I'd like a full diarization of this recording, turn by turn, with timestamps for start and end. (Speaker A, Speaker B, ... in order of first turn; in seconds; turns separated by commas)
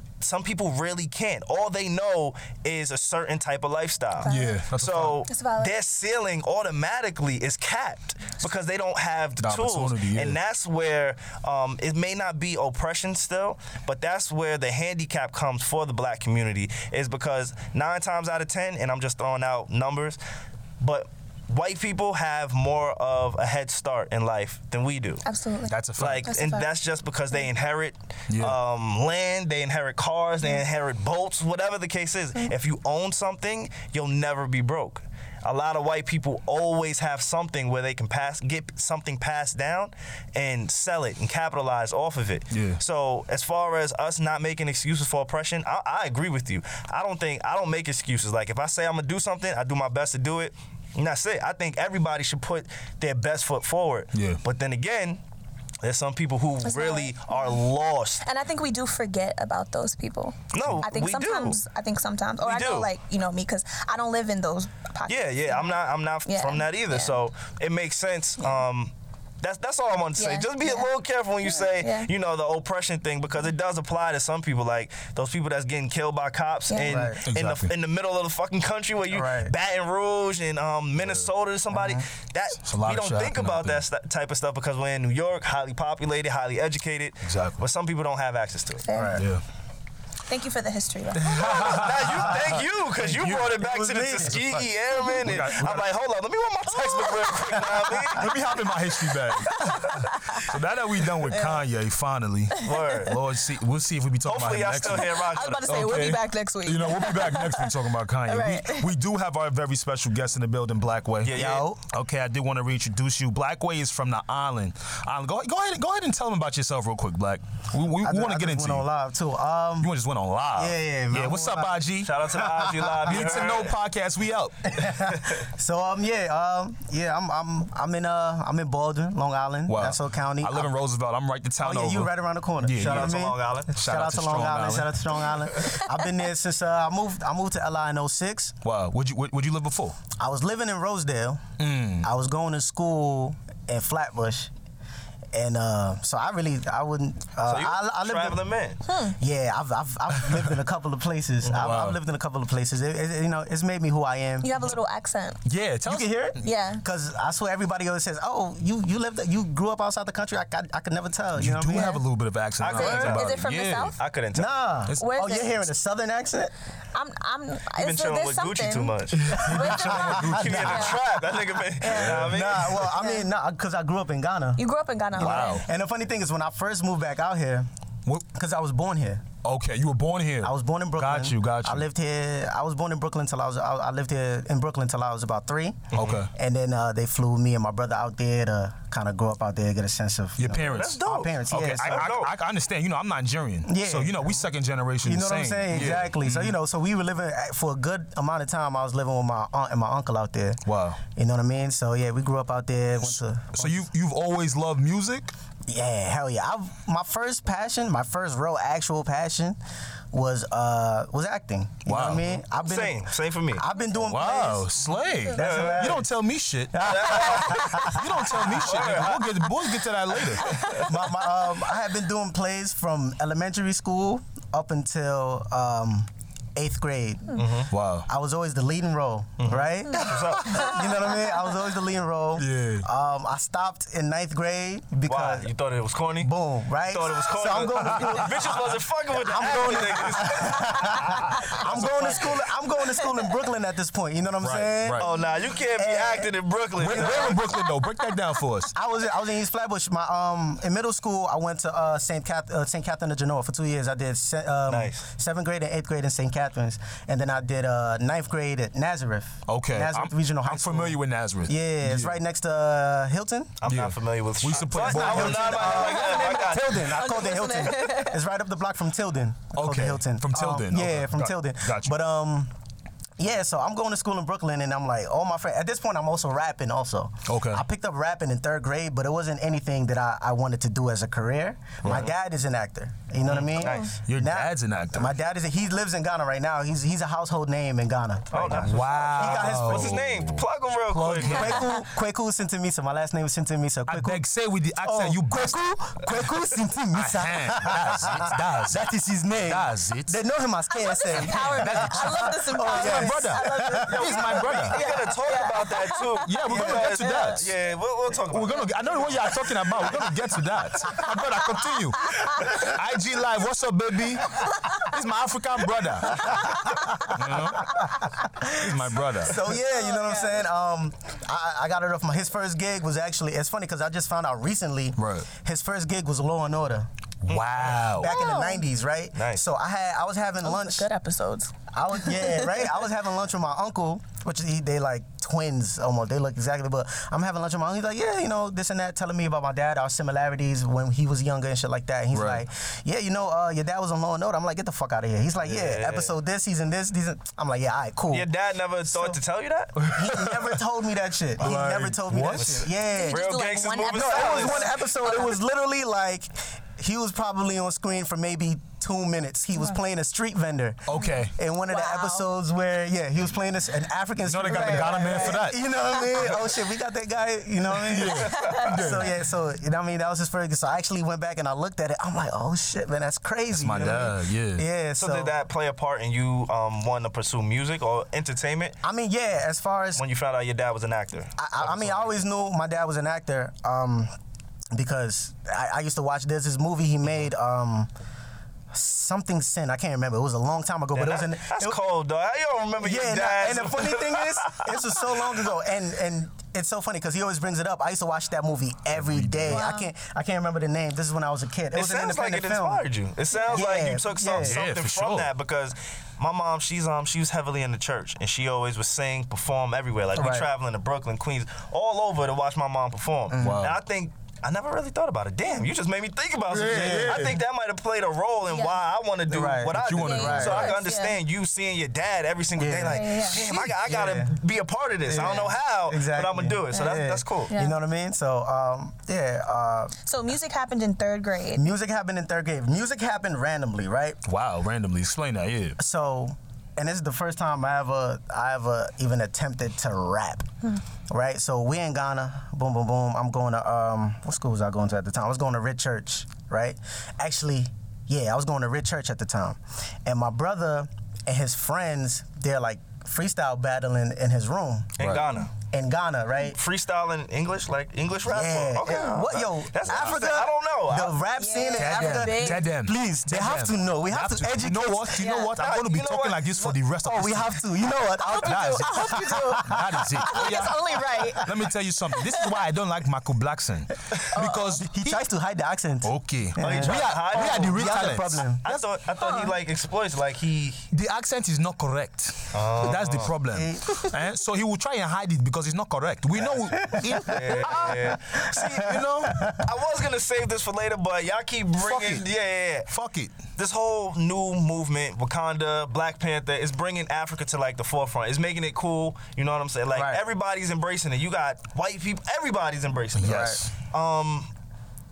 Speaker A: 0.2-20.2, Speaker B: 4.2-4.6, Speaker C: 4.3-5.2, Speaker B: 5.2-5.7, Speaker C: 9.4-10.4, Speaker A: 20.8-25.2, Speaker B: 25.2-26.7, Speaker C: 25.7-26.3, Speaker A: 26.0-55.2, Speaker C: 28.3-28.6, Speaker C: 42.5-42.8, Speaker C: 54.1-54.4, Speaker A: 55.8-58.2, Speaker B: 56.6-57.6, Speaker B: 58.2-67.2, Speaker A: 60.5-61.6, Speaker A: 62.4-62.9, Speaker A: 65.1-88.8, Speaker B: 70.2-70.9, Speaker B: 71.4-72.1, Speaker B: 76.7-77.0, Speaker D: 76.8-77.2, Speaker C: 77.2-77.7, Speaker D: 79.1-79.5, Speaker C: 81.0-81.3, Speaker D: 81.7-82.0, Speaker C: 82.6-83.8, Speaker C: 87.2-87.6, Speaker B: 88.8-89.2, Speaker D: 88.9-89.3, Speaker C: 89.1-89.4, Speaker B: 90.3-91.9, Speaker C: 91.2-93.6, Speaker A: 91.2-98.3, Speaker D: 93.5-94.4, Speaker C: 94.2-95.9, Speaker B: 96.7-97.5, Speaker C: 98.0-118.8, Speaker B: 99.4-100.4, Speaker B: 101.3-101.6, Speaker B: 102.5-103.1, Speaker A: 102.6-103.2, Speaker A: 104.2-105.8, Speaker B: 104.8-108.9, Speaker A: 111.2-111.7, Speaker D: 111.3-111.8, Speaker D: 118.0-119.9, Speaker C: 119.8-122.2, Speaker D: 120.5-123.5, Speaker A: 122.0-123.8, Speaker C: 123.0-124.8, Speaker D: 124.7-130.7, Speaker C: 129.7-134.9, Speaker D: 131.6-138.6, Speaker A: 132.8-133.7, Speaker C: 138.6-140.0, Speaker D: 140.2-141.4, Speaker C: 141.6-142.1, Speaker D: 142.0-144.5, Speaker D: 145.3-148.5, Speaker A: 147.4-148.8, Speaker B: 148.8-149.2, Speaker D: 149.2-154.7, Speaker C: 151.5-152.0, Speaker B: 154.4-155.4, Speaker C: 155.4-156.3, Speaker D: 155.8-162.0, Speaker B: 156.4-156.8, Speaker C: 161.3-163.9, Speaker B: 161.7-162.0, Speaker A: 162.6-163.3, Speaker B: 162.7-164.0, Speaker A: 164.0-164.5, Speaker D: 164.3-166.5, Speaker B: 165.0-165.6, Speaker B: 166.9-171.0, Speaker A: 167.8-172.8, Speaker C: 169.1-171.0, Speaker D: 169.4-171.0, Speaker B: 171.8-173.2, Speaker D: 171.8-174.6, Speaker C: 171.9-172.4, Speaker B: 174.6-175.6, Speaker D: 175.1-177.7, Speaker C: 175.2-175.6, Speaker D: 178.2-179.2, Speaker C: 179.4-181.8, Speaker D: 180.4-192.1, Speaker A: 185.9-186.2, Speaker C: 185.9-186.3, Speaker C: 190.4-196.5, Speaker A: 190.7-192.3, Speaker D: 193.6-194.4, Speaker D: 195.0-203.8, Speaker C: 200.7-201.0, Speaker C: 203.0-205.3, Speaker D: 205.7-209.6, Speaker D: 210.1-216.1, Speaker C: 211.8-212.3, Speaker A: 212.5-213.6, Speaker C: 214.0-220.8, Speaker A: 215.3-216.0, Speaker D: 216.7-219.2, Speaker A: 216.8-219.5, Speaker A: 220.2-220.9, Speaker B: 220.4-220.9, Speaker D: 220.8-227.4, Speaker A: 227.3-227.7, Speaker C: 227.7-228.1, Speaker D: 228.1-235.5, Speaker A: 229.4-230.9, Speaker C: 232.3-232.9, Speaker A: 235.1-236.3, Speaker D: 236.2-245.1, Speaker A: 236.9-242.3, Speaker C: 237.8-238.6, Speaker C: 239.7-240.3, Speaker C: 241.1-242.4, Speaker C: 244.4-245.1, Speaker A: 245.0-247.5, Speaker D: 245.6-246.3, Speaker C: 246.8-248.7, Speaker D: 246.8-247.4, Speaker B: 247.5-248.0, Speaker D: 248.7-263.5, Speaker A: 254.7-255.1, Speaker C: 259.5-262.2, Speaker A: 263.6-266.9, Speaker C: 263.6-265.9, Speaker D: 264.7-272.5, Speaker B: 265.6-268.2, Speaker C: 269.5-271.9, Speaker D: 273.2-290.0, Speaker C: 277.2-277.6, Speaker A: 283.2-283.9, Speaker C: 284.1-285.1, Speaker A: 288.3-291.6, Speaker C: 288.5-291.7, Speaker D: 291.2-294.2, Speaker C: 293.9-295.6, Speaker D: 294.8-304.6, Speaker C: 296.9-298.9, Speaker C: 299.4-300.2, Speaker B: 300.7-307.4, Speaker C: 301.2-304.8, Speaker A: 303.9-309.3, Speaker C: 306.2-307.5, Speaker D: 306.5-306.8, Speaker C: 308.3-319.5, Speaker D: 312.4-312.6, Speaker D: 316.1-318.7, Speaker D: 319.2-326.9, Speaker B: 319.7-320.4, Speaker C: 325.0-325.3, Speaker A: 327.3-327.9, Speaker C: 327.3-328.1, Speaker D: 327.9-330.9, Speaker B: 328.0-328.6, Speaker A: 329.1-329.4, Speaker B: 330.4-332.6, Speaker D: 331.7-348.3, Speaker C: 342.1-342.4, Speaker A: 345.4-346.1, Speaker A: 348.1-349.9, Speaker D: 348.9-349.2, Speaker C: 349.8-350.6, Speaker D: 349.9-353.2, Speaker C: 351.4-352.7, Speaker A: 352.3-354.7, Speaker B: 352.9-355.4, Speaker D: 353.9-375.3, Speaker C: 360.9-361.3, Speaker B: 361.7-362.3, Speaker C: 364.2-365.6, Speaker B: 364.5-366.0, Speaker C: 367.8-369.1, Speaker B: 368.3-368.7, Speaker C: 373.5-374.6, Speaker A: 375.0-378.8, Speaker D: 378.8-380.0, Speaker A: 379.9-382.1, Speaker D: 381.4-384.1, Speaker D: 384.7-387.9, Speaker D: 388.7-391.8, Speaker A: 390.9-395.0, Speaker D: 392.8-402.8, Speaker C: 399.0-399.6, Speaker B: 399.5-399.9, Speaker A: 401.7-427.5, Speaker B: 403.3-403.6, Speaker D: 403.5-404.6, Speaker C: 404.4-405.3, Speaker D: 410.1-410.5, Speaker D: 413.3-413.7, Speaker C: 413.4-413.8, Speaker C: 416.5-417.4, Speaker D: 416.6-417.3, Speaker B: 418.5-418.8, Speaker D: 419.3-420.7, Speaker C: 419.7-420.8, Speaker B: 420.0-421.2, Speaker D: 422.6-424.4, Speaker B: 422.8-423.4, Speaker D: 425.1-429.9, Speaker B: 427.5-427.8, Speaker B: 430.0-431.6, Speaker D: 431.5-434.2, Speaker C: 434.2-435.8, Speaker D: 435.8-440.5, Speaker D: 441.1-455.0, Speaker A: 455.0-455.5, Speaker D: 455.6-456.6, Speaker A: 456.5-461.2, Speaker D: 458.2-465.4, Speaker B: 461.4-462.6, Speaker C: 461.8-467.6, Speaker B: 465.2-465.6, Speaker A: 465.6-466.8, Speaker D: 467.0-471.5, Speaker B: 468.2-471.4, Speaker C: 468.4-470.8, Speaker C: 471.4-475.2, Speaker B: 472.1-472.5, Speaker B: 474.3-474.8, Speaker D: 474.8-478.6, Speaker C: 476.0-478.8, Speaker A: 476.6-480.9, Speaker B: 479.2-479.5, Speaker C: 480.9-489.5, Speaker A: 482.5-483.3, Speaker D: 483.5-484.1, Speaker D: 486.8-489.7, Speaker A: 487.2-488.9, Speaker A: 489.6-492.9, Speaker C: 491.8-492.2, Speaker C: 492.9-493.3, Speaker A: 493.6-504.5, Speaker D: 499.9-500.2, Speaker C: 503.1-503.7, Speaker D: 503.2-503.6